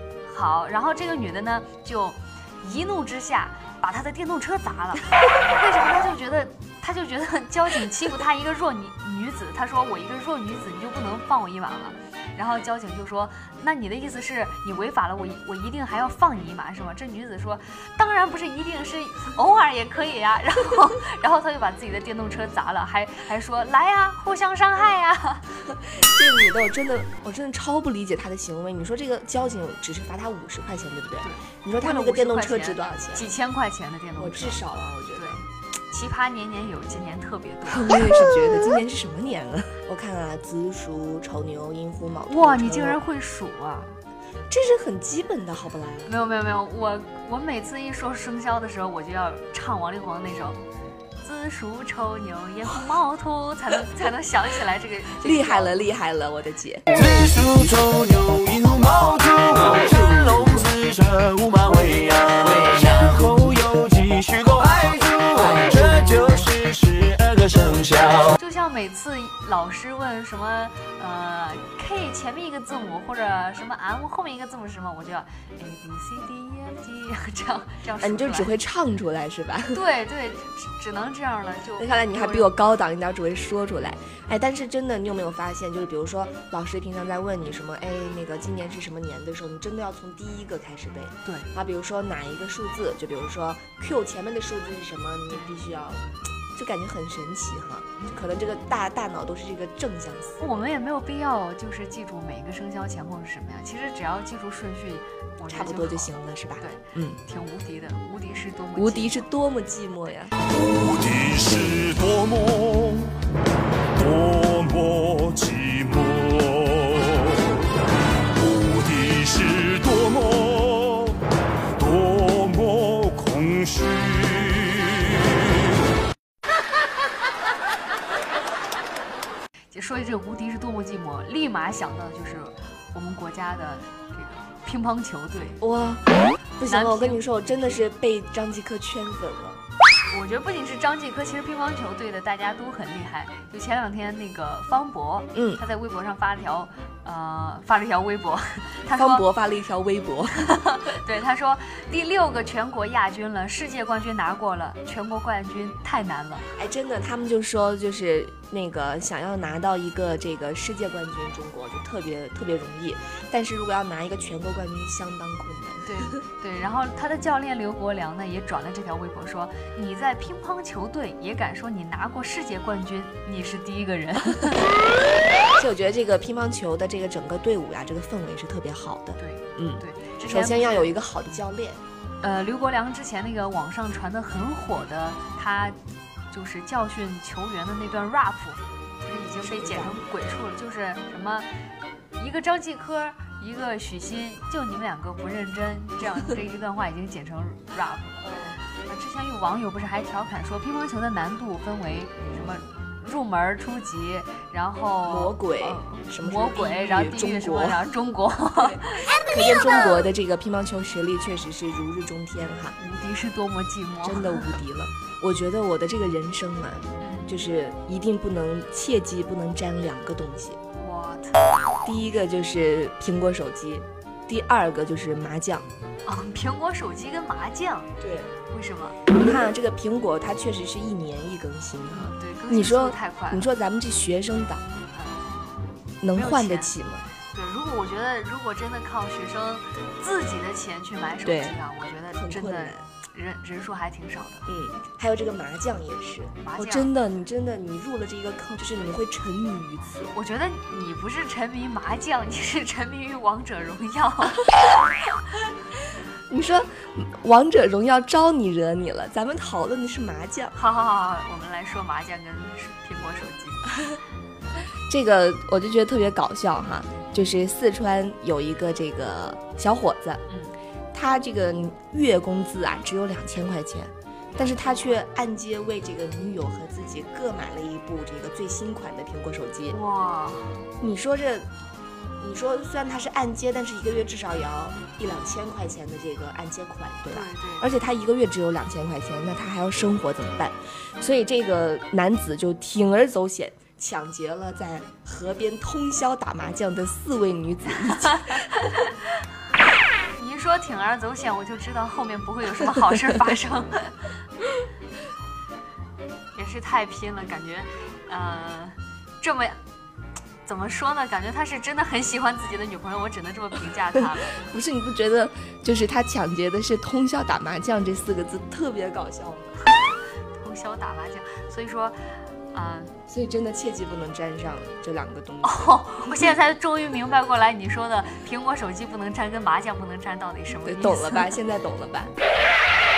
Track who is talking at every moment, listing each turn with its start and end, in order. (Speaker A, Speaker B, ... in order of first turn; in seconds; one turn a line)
Speaker A: 0.2-25.6
Speaker B: 25.7-33.3
Speaker A: 31.2-34.6
Speaker B: 34.2-35.4
Speaker A: 35.1-38.3
Speaker B: 37.7-43.0
Speaker A: 42.3-44.0
Speaker B: 44.5-46.1
Speaker A: 46.1-50.6
Speaker A: 51.2-55.8
Speaker B: 55.2-56.9
Speaker C: 56.9-68.3
Speaker B: 65.4-65.9
Speaker A: 68.3-78.5
Speaker B: 78.0-79.8
Speaker A: 79.7-82.5
Speaker B: 81.8-100.6
Speaker A: 95.3-95.5
Speaker A: 100.4-109.3
Speaker B: 105.5-107.2
Speaker B: 108.8-110.3
Speaker C: 110.4-113.2
Speaker C: 114.0-117.5
Speaker C: 118.3-121.2
Speaker C: 121.8-125.6
Speaker A: 129.7-135.6
Speaker B: 135.6-139.6
Speaker A: 136.7-137.9
Speaker A: 140.1-149.2
Speaker B: 145.3-145.6
Speaker B: 148.9-150.5
Speaker A: 150.4-156.5
Speaker B: 156.6-166.2
Speaker A: 165.8-174.7
Speaker B: 175.6-181.8
Speaker A: 179.2-180.9
Speaker A: 182.2-185.8
Speaker A: 186.3-191.5
Speaker B: 189.4-190.0
Speaker A: 192.2-198.3
Speaker B: 198.2-198.6
Speaker A: 198.9-209.1
Speaker B: 205.1-207.9
Speaker B: 208.6-212.8
Speaker A: 212.8-214.6
Speaker B: 214.0-220.6
Speaker A: 217.0-217.3
Speaker A: 220.8-221.8
Speaker B: 221.8-225.7
Speaker A: 226.1-227.9
Speaker B: 228.0-228.3
Speaker A: 228.5-229.0
Speaker B: 229.1-234.6
Speaker A: 231.9-233.5
Speaker A: 234.9-235.2
Speaker B: 236.0-237.0
Speaker A: 236.2-236.8
Speaker A: 237.3-244.5
Speaker B: 241.2-241.6
Speaker B: 242.1-242.8
Speaker B: 244.5-250.1
Speaker A: 246.4-246.9
Speaker A: 250.1-254.4
Speaker B: 256.3-260.5
Speaker A: 260.6-263.8
Speaker B: 264.9-270.2
Speaker B: 270.9-279.8
Speaker A: 274.3-275.0
Speaker A: 279.7-280.6
Speaker B: 280.8-281.5
Speaker B: 282.2-298.5
Speaker A: 287.1-287.7
Speaker A: 298.1-299.0
Speaker A: 300.2-303.9
Speaker A: 306.4-309.6
Speaker A: 310.4-314.5
Speaker B: 314.4-319.6
Speaker A: 320.4-322.0
Speaker A: 322.5-322.9
Speaker B: 323.1-326.3
Speaker A: 325.4-331.4
Speaker B: 330.6-332.1